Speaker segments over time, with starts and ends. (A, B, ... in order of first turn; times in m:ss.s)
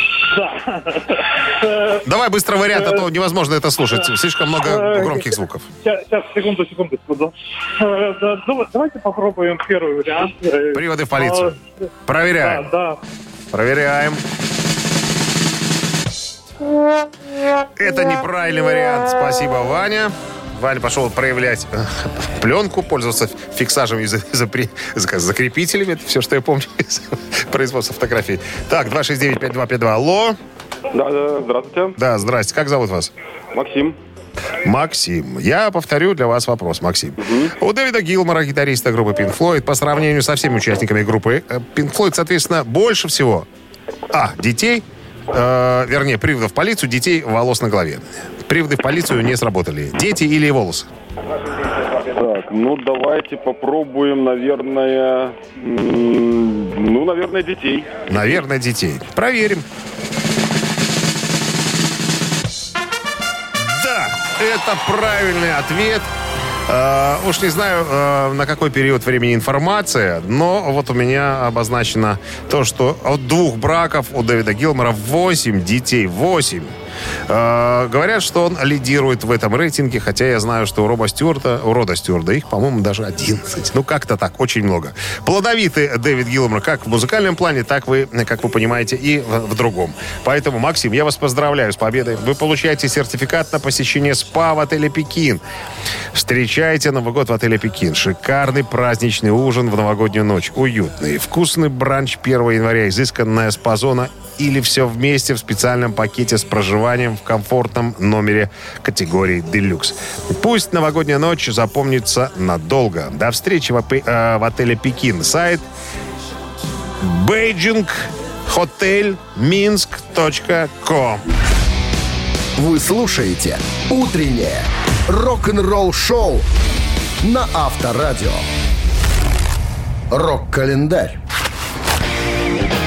0:00.3-0:02.0 A
0:02.0-0:05.6 B
0:02.7-0:03.1 A
0:03.9-0:11.6 A
0:10.7-0:12.7 B
0:12.2-0:13.0 A
0:13.5-0:14.2 B
0:17.8-0:30.4 B
0:30.9-0:32.0 C
0:32.0-0:33.1 B
0:33.5-0:34.0 C
0:34.6-0:43.5 B
0:37.2-0:37.5 C
0:44.1-0:50.9 B
0:52.1-0:58.0 C
0:58.1-0:59.6 B
1:03.7-1:06.0 B
1:06.7-1:16.7 B
1:17.3-1:35.4 B
1:36.1-1:55.6 B
1:57.0-2:01.2 B
2:02.6-2:06.5 D
2:07.2-2:08.4 D
2:10.1-2:11.2 D